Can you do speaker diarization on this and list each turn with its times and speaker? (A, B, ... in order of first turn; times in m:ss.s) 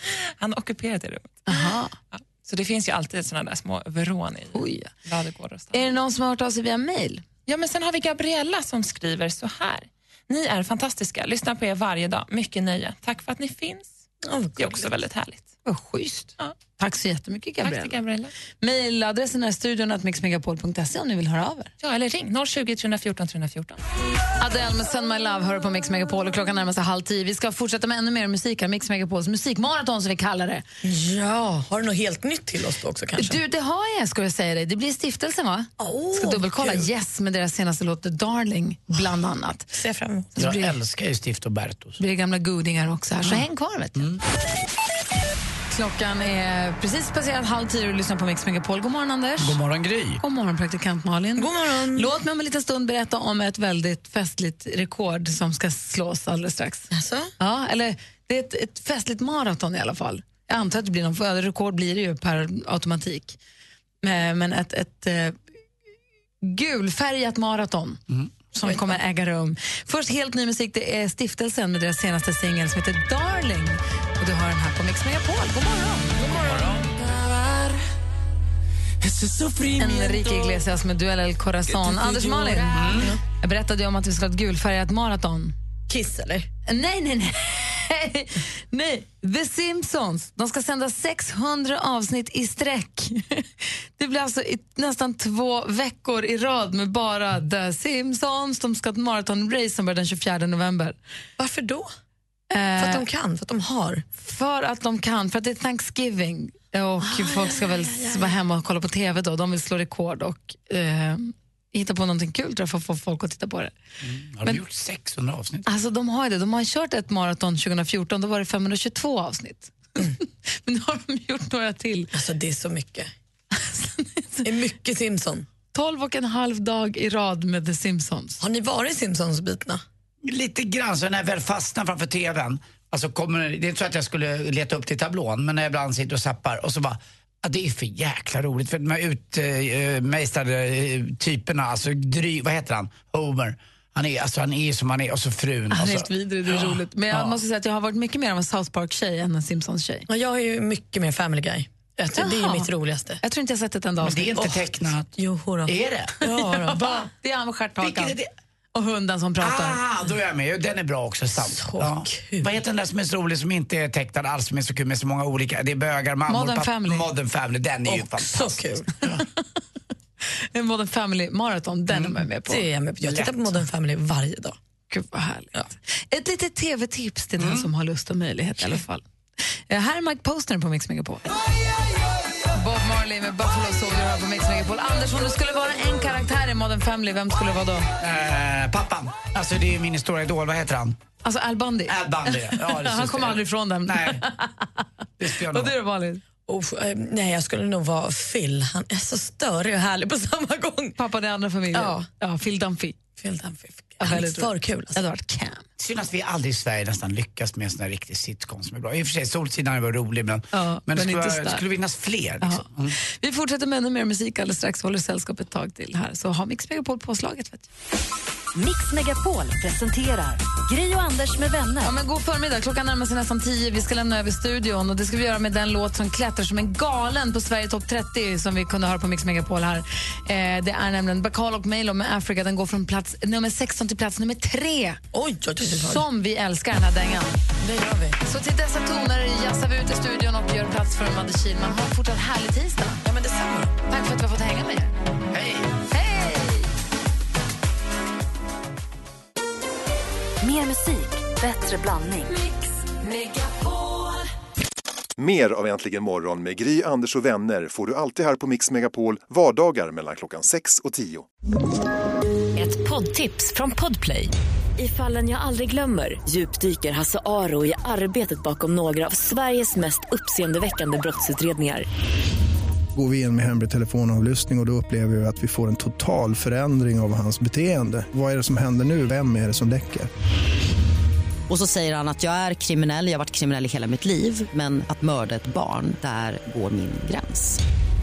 0:00.4-0:05.9 A
0:01.5-0:01.9 B
0:04.5-0:04.9 B
0:05.7-0:07.2 B
0:07.4-0:14.0 A
0:14.2-0:14.9 C
0:14.6-0:15.5 A
0:15.6-0:18.0 B
0:17.6-0:18.3 A
0:18.6-0:21.7 B
0:21.8-0:23.8 A
0:24.4-0:30.6 B
0:30.8-0:33.4 C
0:33.2-0:39.7 B
0:35.8-0:36.9 C
0:39.8-0:40.3 C
0:40.4-0:40.7 B
0:40.4-0:42.0 D
0:42.0-0:44.0 B
0:45.7-0:49.6 B
0:49.4-0:50.2 D
0:50.2-1:03.4 B
0:51.4-0:52.1 C
0:56.9-0:57.3 C
1:04.0-1:05.4 B
1:06.4-1:08.0 B
1:08.5-1:16.5 B
1:16.2-1:17.7 C
1:19.1-1:20.5 C
1:19.7-1:22.8 B
1:21.7-1:23.2 C
1:22.7-1:23.1 D
1:23.4-1:25.5 B
1:25.9-1:26.5 C
1:26.6-1:33.4 B
1:34.0-1:41.0 B
1:41.4-1:41.9 C
1:42.5-1:43.0 B
1:42.8-1:44.0 C
1:44.2-1:53.7 B
1:47.0-1:48.4 C
1:54.0-1:55.6 D
1:55.6-2:02.1 B
2:02.1-2:03.1 C
2:03.5-2:04.4 B
2:04.4-2:05.4 C
2:05.7-2:08.4 B
2:08.4-2:09.8 C
2:10.2-2:27.4 D
2:25.7-2:30.0 B
2:30.1-2:33.2 C
2:32.1-2:32.7 B
2:33.2-2:34.4 B
2:34.0-2:35.1 D
2:34.4-2:36.9 C
2:35.6-2:36.2 D
2:36.3-2:38.2 B
2:36.8-2:37.0 D
2:37.8-2:38.3 D
2:38.7-2:39.8 B
2:39.4-2:49.2 D
2:41.4-2:42.5 C
2:46.3-2:47.1 B
2:47.9-2:48.9 C
2:50.5-2:52.6 B
2:52.5-2:54.6 C
2:53.0-2:53.5 D
2:54.9-2:59.0 B
2:57.4-2:57.7 D
2:59.7-3:01.3 B
3:02.5-3:07.9 B
3:08.0-3:11.0 D
3:11.2-3:14.7 B
3:11.9-3:14.2 D
3:15.2-3:15.7 D
3:15.5-3:16.2 B
3:16.5-3:20.9 C
3:21.0-3:23.0 B
3:21.7-3:22.0 C
3:23.2-3:25.0 C
3:24.0-3:25.6 B
3:25.8-3:33.0 D
3:30.5-3:31.6 B
3:32.4-3:37.7 B
3:38.5-3:41.9 E
3:41.8-3:55.0 B
3:55.1-3:56.0 C
3:55.6-3:57.3 B
3:57.6-3:58.2 C
3:58.2-4:03.0 B
4:03.0-4:03.7 C
4:03.9-4:04.9 B
4:05.3-4:05.7 D
4:05.9-4:06.7 B
4:10.4-4:12.3 E
4:15.2-4:21.2 F
4:22.6-4:31.9 E
4:33.0-4:40.1 G
4:41.5-4:47.6 H